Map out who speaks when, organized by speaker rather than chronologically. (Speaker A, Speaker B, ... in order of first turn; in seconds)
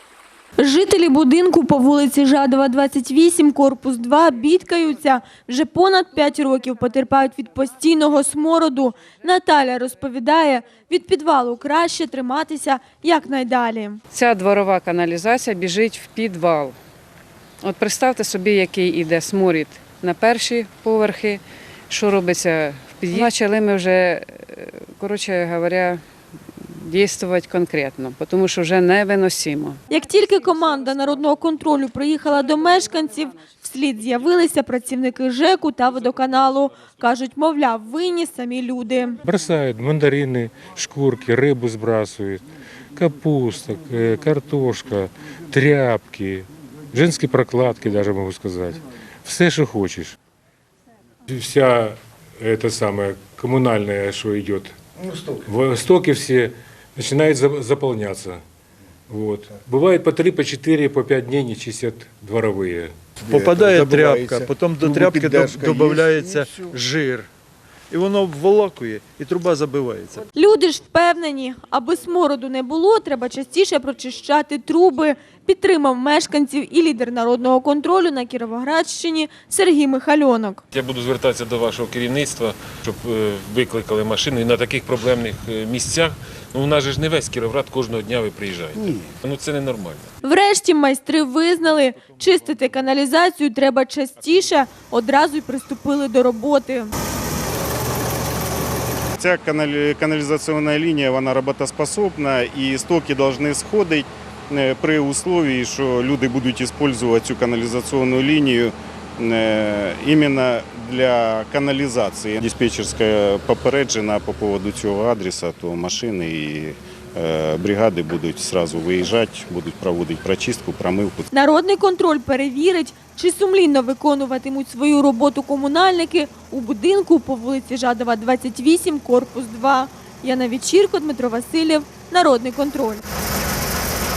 Speaker A: 0.6-14.0, 29.9-39.2, 70.3-80.6, 90.2-96.9, 121.3-133.0
Speaker B: 14.1-16.8, 17.6-26.0, 26.6-29.8
Speaker C: 39.2-42.4, 43.0-50.1, 51.3-54.7, 55.3-58.4, 59.1-62.9
Speaker D: 63.2-67.3, 67.9-70.2
Speaker E: 80.7-90.1
Speaker F: 99.2-121.3